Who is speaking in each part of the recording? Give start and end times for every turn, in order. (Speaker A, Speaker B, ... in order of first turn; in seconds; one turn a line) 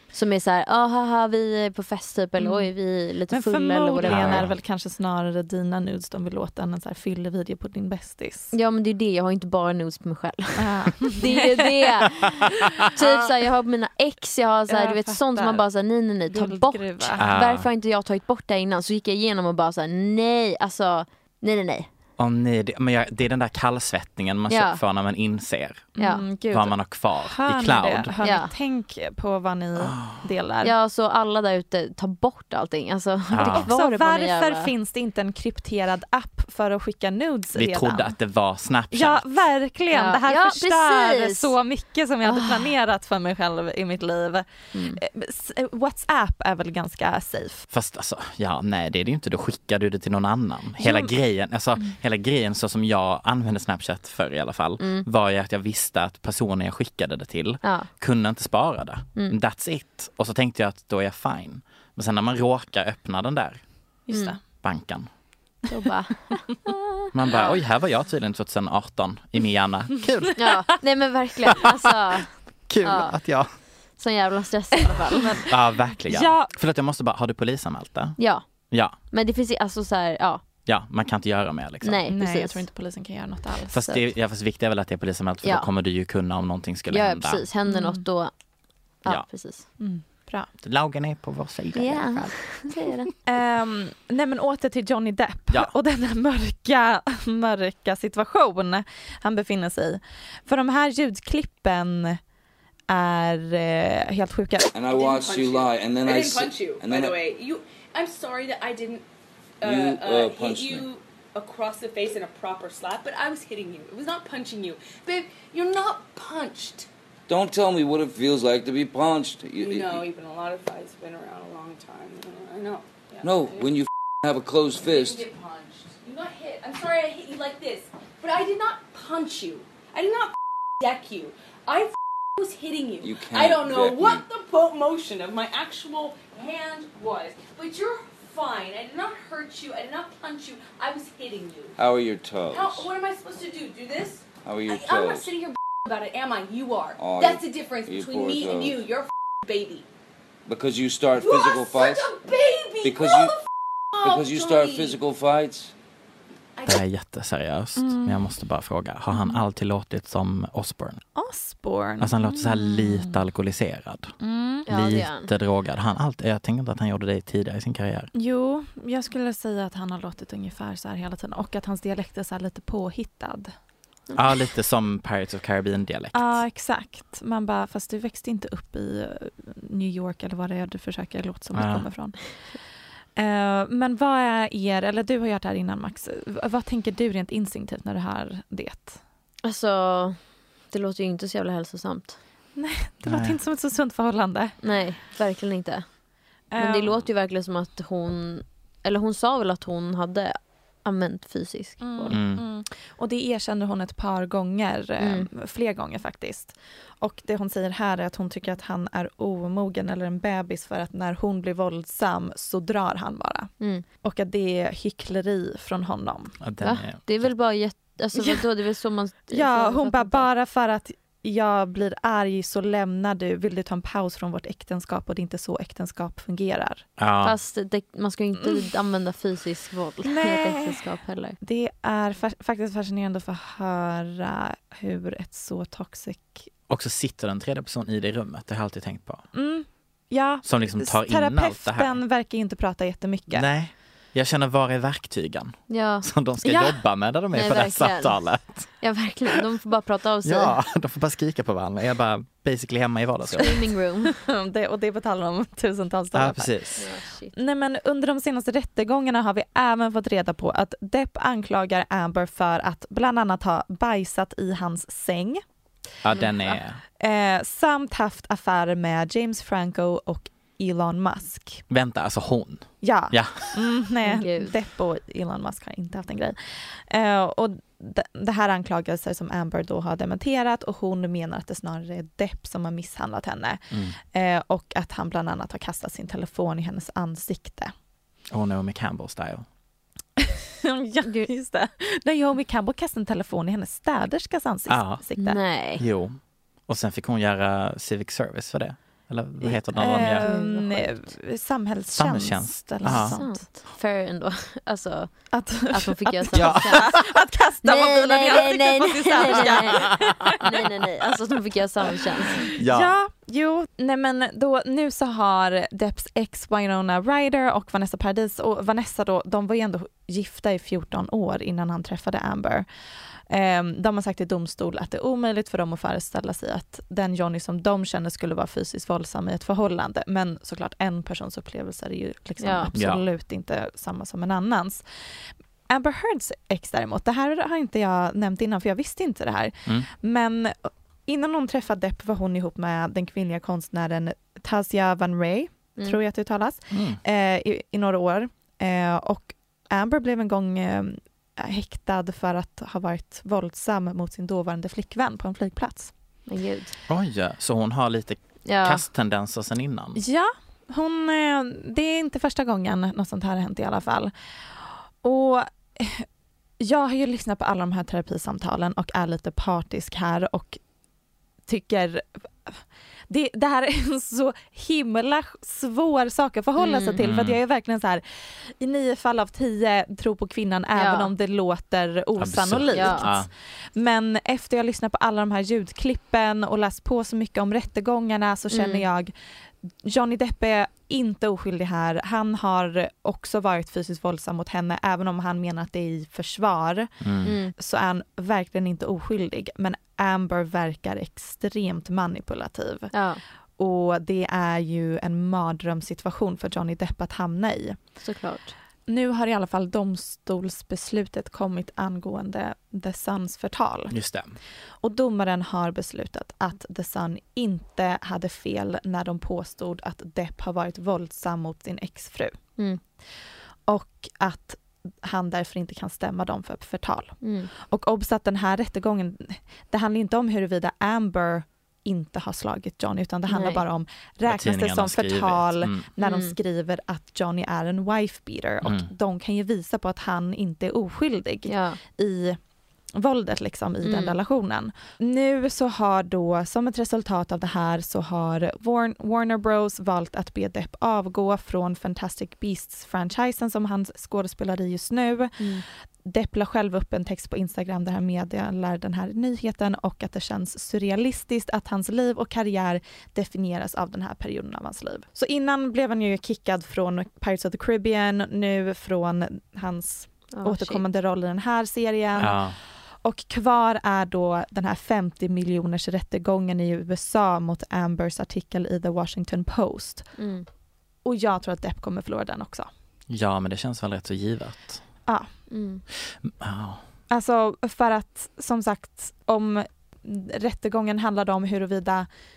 Speaker A: 0.1-4.5
Speaker B: 2.4-2.7
Speaker B: 3.3-8.5
Speaker C: 4.0-4.5
Speaker A: 8.5-21.9
Speaker B: 10.6-13.3
Speaker B: 14.7-15.6
Speaker B: 16.3-17.2
Speaker C: 17.2-17.7
Speaker C: 22.2-25.9
Speaker A: 24.5-24.8
Speaker B: 26.0-30.7
Speaker A: 26.0-26.4
Speaker C: 26.5-28.1
Speaker A: 28.2-28.5
Speaker C: 29.8-30.2
Speaker A: 30.6-34.7
Speaker C: 33.3-33.7
Speaker B: 33.4-38.1
Speaker C: 37.6-39.2
Speaker B: 38.9-47.7
Speaker A: 39.9-41.5
Speaker A: 42.2-42.7
Speaker A: 44.8-45.0
Speaker C: 47.7-63.6
Speaker B: 50.8-51.1
Speaker A: 54.8-55.0
Speaker A: 57.6-57.9
Speaker B: 64.1-64.4
Speaker A: 64.1-64.4
Speaker C: 64.6-65.1
Speaker A: 65.7-67.4
Speaker C: 67.1-70.5
Speaker A: 70.4-73.2
Speaker C: 72.7-73.5
Speaker A: 74.0-75.4
Speaker B: 74.8-75.5
Speaker C: 75.5-78.2
Speaker B: 76.0-76.5
Speaker A: 78.2-78.5
Speaker C: 78.7-79.0
Speaker A: 79.1-80.4
Speaker C: 80.7-82.0
Speaker A: 81.8-82.6
Speaker B: 82.1-84.0
Speaker C: 83.7-87.4
Speaker A: 86.9-88.3
Speaker B: 87.7-88.0
Speaker A: 89.0-89.6
Speaker B: 89.8-90.5
Speaker C: 90.6-92.7
Speaker A: 91.8-93.1
Speaker B: 93.3-102.2
Speaker B: 102.9-104.7
Speaker D: 104.7-107.2
Speaker E: 104.9-109.0
Speaker E: 109.6-116.9
Speaker D: 109.6-110.9
Speaker D: 117.3-120.1
Speaker E: 119.6-123.8
Speaker D: 123.2-125.3
Speaker E: 124.8-141.8
Speaker D: 133.0-134.2
Speaker D: 141.8-142.9
Speaker E: 142.5-149.9
Speaker D: 144.4-145.3
Speaker D: 147.0-148.8
Speaker D: 150.5-152.1
Speaker E: 151.2-153.4
Speaker D: 152.8-153.3
Speaker E: 154.0-155.0
Speaker D: 154.0-155.7
Speaker E: 156.6-156.8
Speaker C: 156.7-161.0
Speaker B: 157.8-158.2
Speaker B: 161.2-163.2
Speaker C: 162.0-164.1
Speaker B: 164.2-164.7
Speaker A: 164.7-165.3
Speaker C: 164.7-168.1
Speaker B: 168.1-173.5
Speaker C: 174.2-176.4
Speaker B: 176.1-182.5
Speaker C: 181.5-181.9
Speaker B: 183.2-189.0
Speaker A: 189.4-190.2
Speaker A: 190.7-192.2
Speaker B: 192.6-194.6
Speaker C: 193.1-193.4
Speaker A: 194.6-195.9
Speaker B: 196.5-196.9
Speaker A: 196.6-202.2
Speaker B: 201.8-216.4
Speaker C: 202.1-202.4
Speaker A: 205.0-205.3
Speaker A: 213.6-213.8
Speaker C: 216.4-217.3
Speaker A: 216.6-220.3
Speaker B: 218.2-218.5
Speaker B: 219.3-226.9
Speaker C: 227.0-227.4
Speaker A: 227.2-231.4
Speaker B: 230.1-230.8
Speaker B: 231.4-236.5
Speaker C: 236.7-239.2
Speaker B: 239.3-243.5
Speaker C: 240.4-242.0
Speaker C: 243.3-248.7
Speaker A: 245.7-246.1
Speaker B: 246.4-246.8
Speaker A: 247.3-250.6
Speaker C: 250.2-253.5
Speaker A: 253.3-254.1
Speaker B: 254.1-256.6
Speaker C: 256.1-256.9
Speaker A: 256.8-257.3
Speaker B: 257.3-265.4
Speaker C: 266.0-266.8
Speaker B: 267.0-271.6
Speaker C: 271.7-273.7
Speaker B: 272.8-283.6
Speaker A: 274.0-274.5
Speaker C: 283.7-284.0
Speaker B: 284.1-287.7
Speaker C: 288.3-289.5
Speaker B: 290.2-295.4
Speaker C: 294.7-295.0
Speaker A: 295.2-295.8
Speaker C: 295.8-300.3
Speaker B: 299.4-303.4
Speaker A: 300.0-301.1
Speaker C: 301.9-303.2
Speaker A: 302.8-307.0
Speaker B: 305.3-310.5
Speaker C: 306.3-306.9
Speaker A: 307.6-312.5
Speaker B: 312.4-322.7
Speaker C: 312.6-312.9
Speaker B: 323.3-334.8
Speaker A: 332.4-332.7
Speaker C: 332.8-333.0
Speaker B: 335.7-355.9
Speaker C: 346.7-347.0
Speaker A: 356.3-356.8
Speaker C: 356.9-360.0
Speaker A: 358.5-358.8
Speaker B: 360.0-364.1
Speaker B: 365.0-366.1
Speaker B: 366.6-370.6
Speaker B: 371.5-383.2
Speaker A: 376.6-377.0
Speaker C: 377.0-377.4
Speaker A: 380.8-381.1
Speaker C: 382.2-383.3
Speaker A: 382.7-383.1
Speaker B: 383.8-389.1
Speaker A: 388.5-388.9
Speaker B: 389.9-396.9
Speaker C: 397.0-397.3
Speaker A: 397.2-397.5
Speaker B: 397.6-402.9
Speaker A: 402.9-403.2
Speaker B: 403.6-407.8
Speaker A: 408.0-408.6
Speaker B: 408.9-413.9
Speaker C: 413.9-414.4
Speaker B: 414.8-422.4
Speaker B: 423.7-442.4
Speaker A: 427.2-427.5
Speaker A: 433.3-433.6
Speaker C: 434.3-435.9
Speaker A: 436.0-436.4
Speaker A: 441.5-441.8
Speaker B: 442.9-480.1
Speaker A: 443.8-444.2
Speaker A: 455.4-455.6
Speaker A: 470.3-470.8
Speaker C: 472.2-472.6
Speaker A: 480.2-480.5
Speaker B: 481.1-482.7
Speaker C: 483.1-484.8
Speaker B: 485.1-485.3
Speaker A: 485.5-485.8
Speaker C: 486.2-486.8
Speaker B: 487.1-492.1